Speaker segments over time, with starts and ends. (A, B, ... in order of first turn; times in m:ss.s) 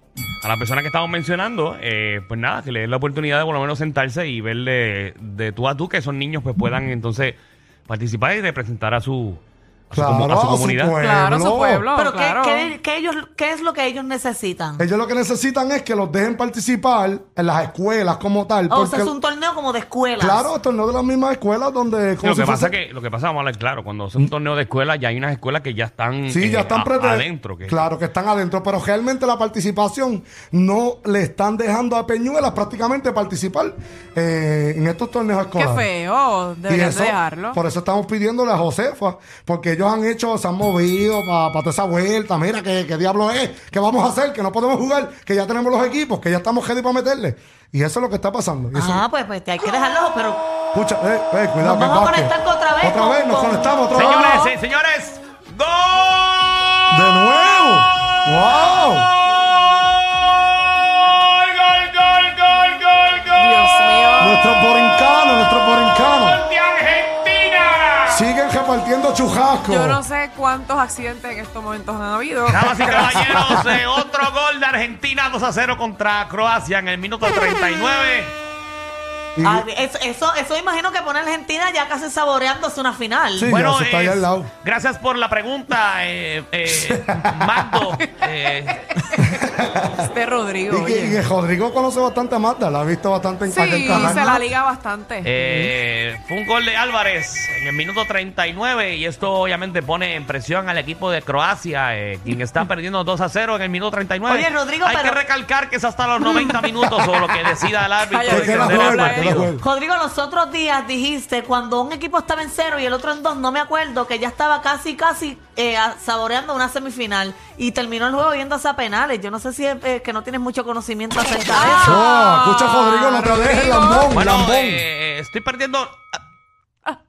0:00.4-0:10.9 A
0:09.9-0:11.9 B
0:11.0-0:12.7 C
0:11.9-0:14.8 D
0:14.8-0:19.1 B
0:18.7-0:20.5 D
0:20.2-0:22.7 B
0:22.2-0:27.9 A
0:26.3-0:35.9 B
0:35.5-0:37.6 C
0:36.7-0:49.0 B
0:48.7-0:50.4 D
0:50.7-0:54.5 B
0:51.6-0:54.4 D
0:53.9-0:57.6 A
0:56.9-0:59.1 B
1:00.6-1:04.0 A
1:03.4-1:04.4 C
1:04.2-1:06.4 B
1:06.0-1:08.2 A
1:08.1-1:10.0 B
1:09.7-1:13.2 C
1:12.5-1:18.3 A
1:19.4-1:19.6 B
1:19.4-1:23.5 D
1:23.4-1:24.5 B
1:23.5-1:29.0 A
1:26.8-1:27.4 B
1:29.2-1:30.0 B
1:30.0-1:31.2 C
1:30.7-1:34.4 B
1:33.5-1:35.3 C
1:35.2-1:49.5 A
1:44.3-1:45.2 D
1:48.1-1:49.4 C
1:48.3-1:49.6 B
1:49.6-2:02.0 D
2:01.5-2:04.1 C
2:01.8-2:04.8 B
2:04.1-2:06.0 A